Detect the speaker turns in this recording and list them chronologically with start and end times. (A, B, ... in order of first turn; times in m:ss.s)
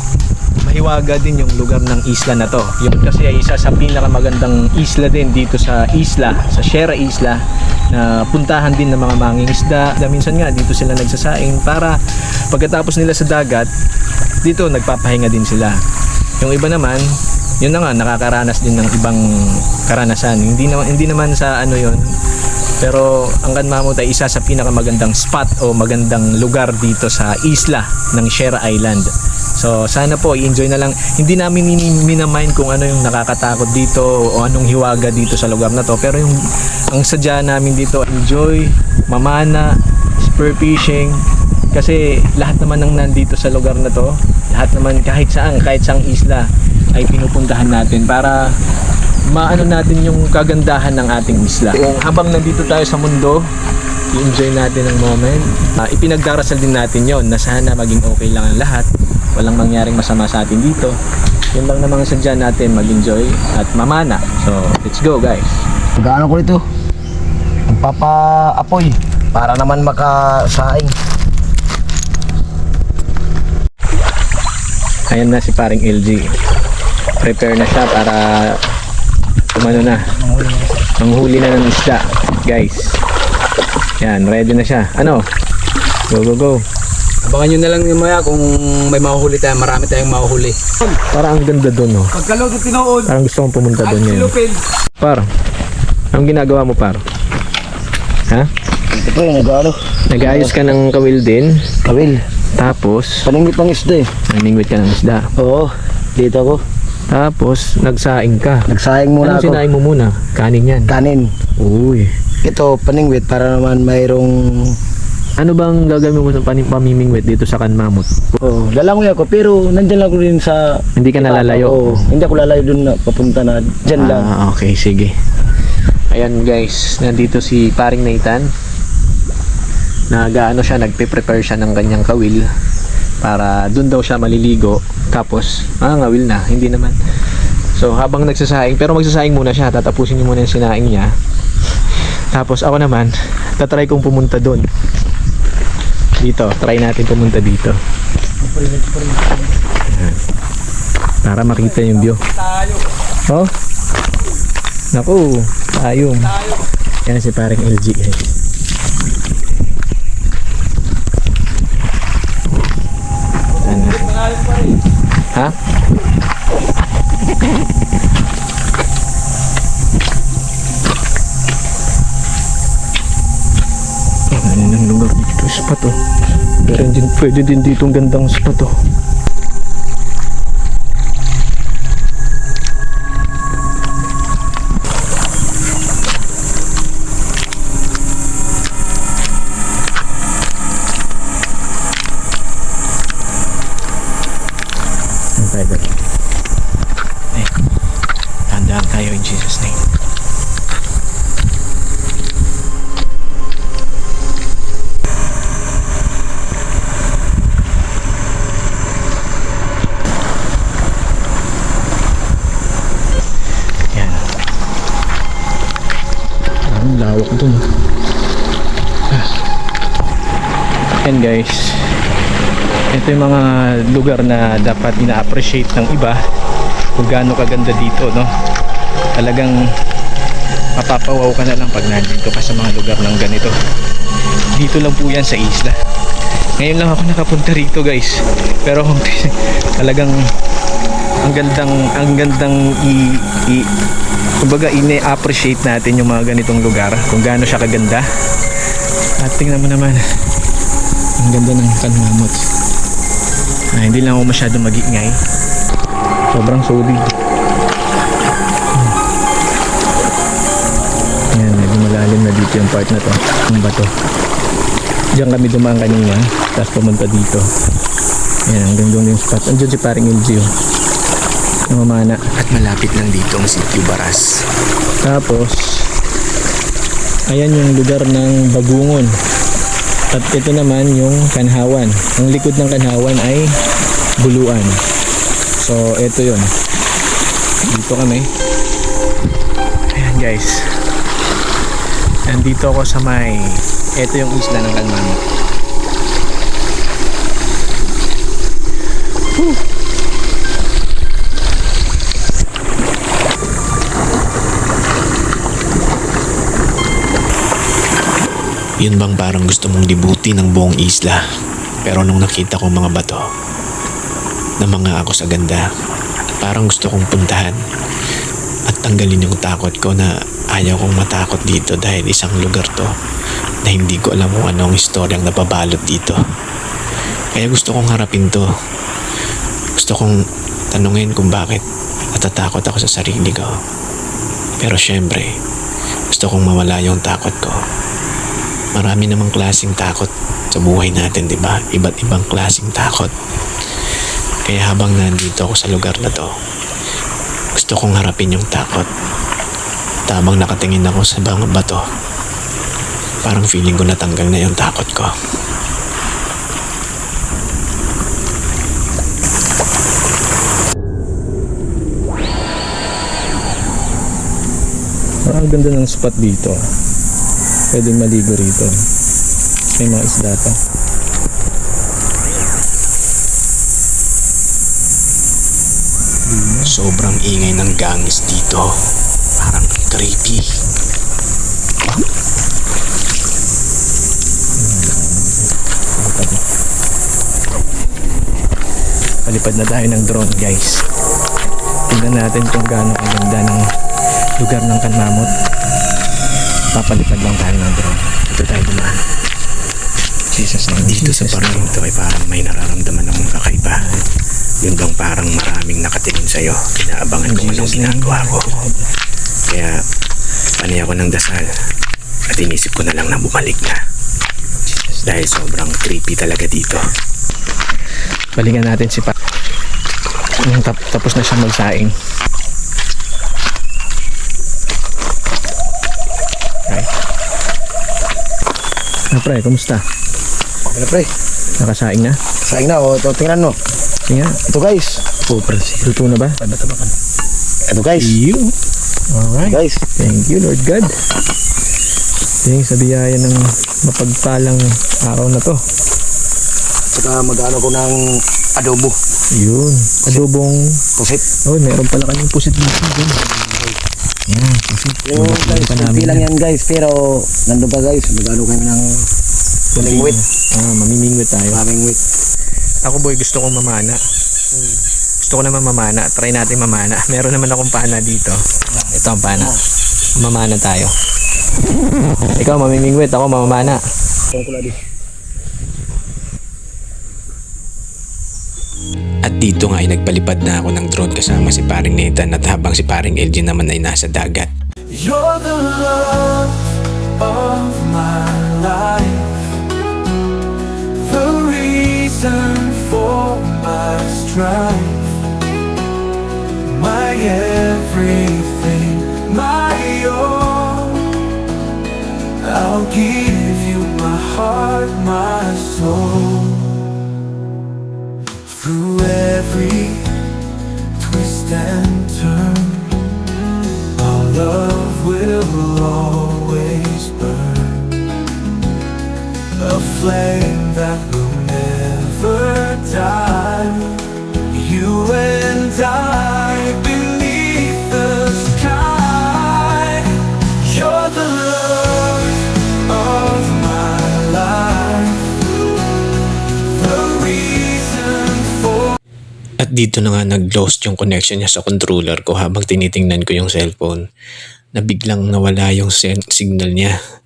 0:00.6-0:12.0 A
0:12.5-0:13.7 A
0:14.4-0:15.8 A
0:16.4-0:17.0 A
0:17.6-0:22.0 A
0:22.8-0:36.4 A
0:36.9-0:48.5 A
0:49.3-0:53.5 A
0:54.1-1:01.0 A
1:01.5-1:05.6 A
1:06.0-1:06.6 B
1:07.7-1:10.9 B
1:15.1-1:16.2 A
1:17.2-1:18.6 A
1:19.5-1:20.1 A
1:20.2-1:20.8 C
1:21.0-1:23.0 A
1:24.0-1:25.2 A
1:26.1-1:26.6 A
1:27.2-1:30.9 C
1:31.1-1:32.1 A
1:32.1-1:33.1 C
1:33.1-1:34.3 A
1:33.8-1:34.6 C
1:35.0-1:35.3 A
1:36.1-1:37.0 A
1:38.9-1:40.8 B
1:40.1-1:41.6 A
1:41.8-1:42.2 B
1:42.6-1:43.3 A
1:43.2-1:44.1 B
1:44.3-1:45.3 A
1:45.4-1:46.6 B
1:47.1-1:48.7 A
1:48.7-1:49.6 B
1:49.2-1:50.9 A
1:50.9-1:51.3 B
1:51.6-1:52.1 A
1:52.4-1:54.8 B
1:55.4-1:58.2 A
1:58.3-2:04.3 B
2:01.0-2:02.1 A
2:04.0-2:05.1 A
2:06.1-2:08.5 A
2:10.1-2:12.5 A
2:13.2-2:17.0 A
2:17.8-2:21.1 A
2:22.3-2:24.6 A
2:26.2-2:27.8 A
2:28.5-2:29.3 C
2:29.9-2:30.2 A
2:31.2-2:32.2 A
2:31.4-2:32.9 C
2:34.9-2:36.3 A
2:36.2-2:36.6 C
2:37.0-2:38.2 A
2:43.5-2:44.8 C
2:43.6-2:44.1 A
2:54.3-2:56.0 A
2:56.6-2:58.7 A
3:15.4-3:16.0 A
3:18.5-3:19.8 A
3:33.9-3:34.2 A
3:36.7-3:37.6 A
3:41.0-3:41.9 A
3:42.9-3:46.2 A
3:47.0-3:48.3 A
3:49.2-3:49.6 A
3:50.8-3:53.5 A
3:54.6-3:55.8 A
3:56.6-4:00.2 A
4:01.2-4:03.7 A
4:04.4-4:08.0 A
4:09.2-4:10.0 A
4:11.2-4:12.4 A
4:13.7-4:15.2 A
4:16.3-4:17.1 A
4:21.3-4:23.9 A
4:25.2-4:27.4 A
4:28.5-4:30.5 A
4:31.7-4:32.2 A
4:32.4-4:34.2 D
4:35.0-4:35.9 A
4:37.3-4:39.1 A
4:40.1-4:43.6 A
4:44.2-4:44.8 A
4:45.6-4:46.5 A
4:47.7-4:48.3 A
4:49.9-4:50.6 A
4:52.3-4:55.2 A
5:08.8-5:11.2 D
5:11.8-5:13.2 D
5:14.6-5:15.6 D
5:16.4-5:17.6 D
5:18.7-5:22.9 D
5:23.6-5:26.2 D
5:27.3-5:28.5 D
5:29.8-5:30.2 D
5:30.7-5:31.6 D
5:32.2-5:33.5 D
5:34.6-5:35.3 D
5:36.1-5:37.6 D
5:38.8-5:43.1 D
5:44.5-5:46.3 D
5:47.6-5:48.9 D
5:50.1-5:51.8 D
5:53.2-5:55.1 D
6:05.2-6:06.6 A
6:07.7-6:08.7 A
6:09.8-6:10.6 A
6:16.3-6:16.7 A
6:16.6-6:18.7 D
6:19.4-6:20.4 D
6:24.6-6:26.4 A
6:29.2-6:30.8 A
6:31.9-6:33.6 A
6:34.4-6:35.3 A
6:36.7-6:39.0 A
6:40.3-6:41.8 A
6:40.7-6:43.8 D
6:43.8-6:44.0 A
6:44.6-6:48.5 D
6:47.2-6:48.9 A
6:49.5-6:49.8 D
6:50.6-6:51.5 D
6:52.3-6:53.8 D
6:54.7-6:55.1 A
6:55.0-6:56.8 D
6:58.4-6:59.1 A
7:00.4-7:01.9 A
7:09.1-7:09.8 A
7:10.7-7:11.1 B
7:11.6-7:12.2 A
7:12.4-7:13.6 B
7:14.1-7:14.4 A
7:14.5-7:16.9 B
7:15.8-7:16.4 A
7:17.7-7:18.2 B
7:18.0-7:18.5 A
7:19.1-7:20.9 A
7:19.5-7:19.8 B
7:22.4-7:25.6 A
7:26.9-7:28.0 B
7:28.6-7:29.0 B
7:29.4-7:30.8 A
7:31.0-7:31.2 B
7:31.5-7:33.2 A
7:33.3-7:33.8 B
7:34.3-7:36.3 A
7:35.0-7:39.0 B
7:39.7-7:41.6 A
7:39.8-7:40.2 B
7:41.5-7:42.0 B
7:42.8-7:44.0 A
7:45.2-7:48.4 A
7:48.8-7:49.6 B
7:48.9-7:49.5 A
7:50.2-7:50.9 A
7:52.3-7:53.8 A
7:54.3-7:54.8 B
7:59.2-8:04.5 D
8:04.9-8:09.5 E
8:11.0-8:15.2 E
8:16.6-8:21.1 E
8:22.4-8:26.8 E
8:28.5-8:30.2 E
8:31.0-8:33.0 E
8:33.9-8:37.9 E
8:39.5-8:55.3 E
8:56.8-8:59.0 E
8:59.6-9:04.0 D
9:04.7-9:07.0 D